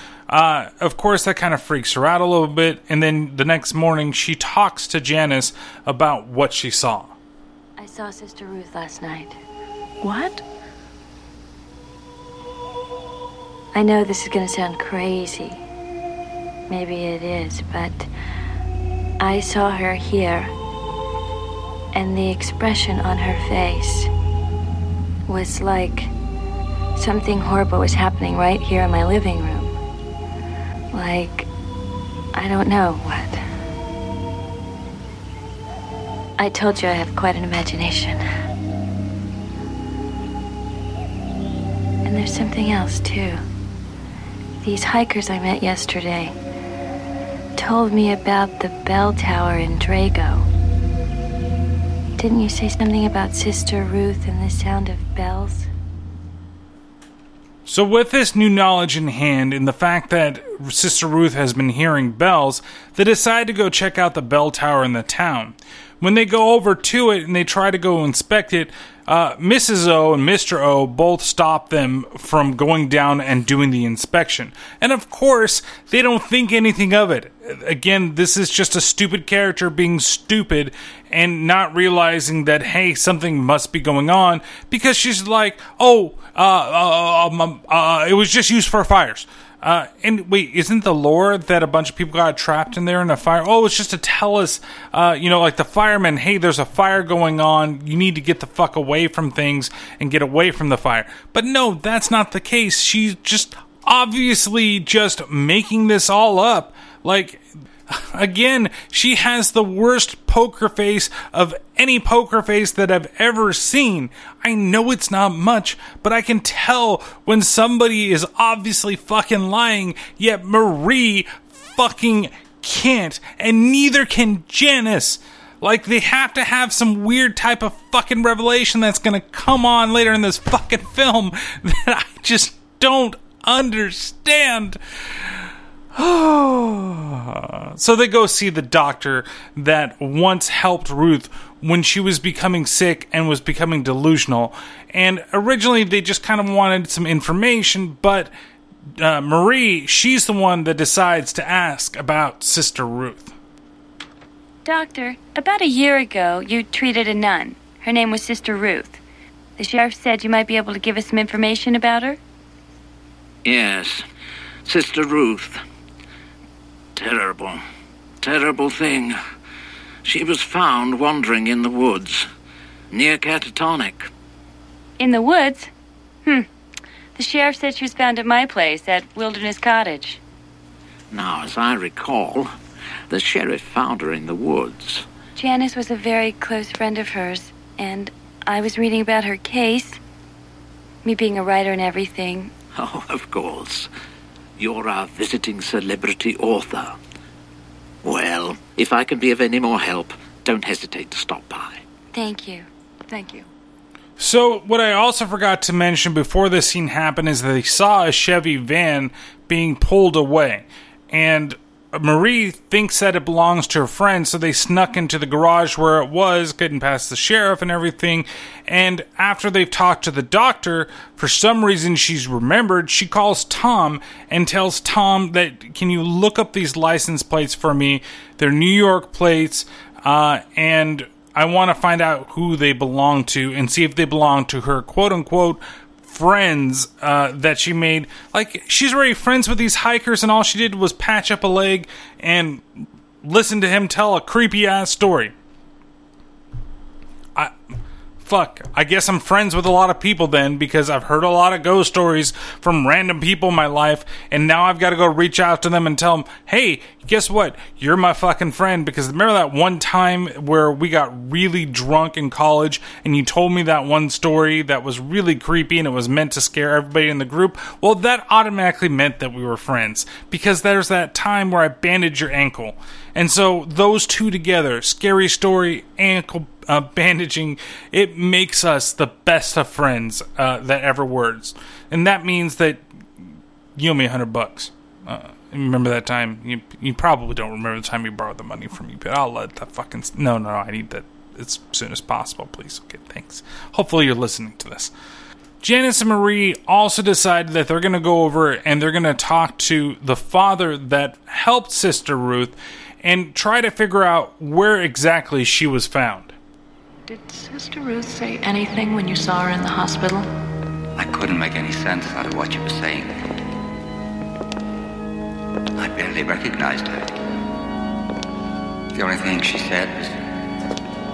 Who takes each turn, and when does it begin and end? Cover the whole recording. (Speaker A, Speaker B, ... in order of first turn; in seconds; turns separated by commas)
Speaker A: 0.3-7.1, Speaker B: 7.8-9.4, Speaker C: 10.0-10.4, Speaker B: 13.7-15.6, Speaker B: 16.7-18.1, Speaker B: 19.2-20.5, Speaker B: 21.9-24.1, Speaker B: 25.3-26.1, Speaker B: 26.9-29.7, Speaker B: 30.9-31.5, Speaker B: 32.3-33.4, Speaker B: 36.4-38.2, Speaker B: 42.0-43.4, Speaker B: 44.6-46.3, Speaker B: 47.6-50.5, Speaker B: 52.2-55.7, Speaker A: 57.6-134.8, Speaker A: 135.9-148.3, Speaker A: 149.0-153.3, Speaker B: 154.6-159.0, Speaker B: 159.6-162.2, Speaker D: 163.4-164.0, Speaker D: 164.7-165.6, Speaker D: 166.9-167.6, Speaker D: 168.2-169.2, Speaker D: 170.0-172.3, Speaker D: 172.9-174.1, Speaker B: 175.0-175.7, Speaker B: 177.2-180.2, Speaker D: 181.1-182.5, Speaker D: 183.1-185.1, Speaker B: 185.3-190.0, Speaker B: 191.0-192.5, Speaker D: 192.7-193.9, Speaker D: 194.6-196.9, Speaker D: 198.0-201.8, Speaker B: 202.1-202.7, Speaker C: 203.1-203.5, Speaker A: 204.2-245.3, Speaker A: 248.2-282.8, Speaker A: 283.8-294.9, Speaker A: 295.6-306.3, Speaker C: 307.1-310.3, Speaker E: 310.9-313.1, Speaker E: 315.8-317.1, Speaker E: 318.9-320.1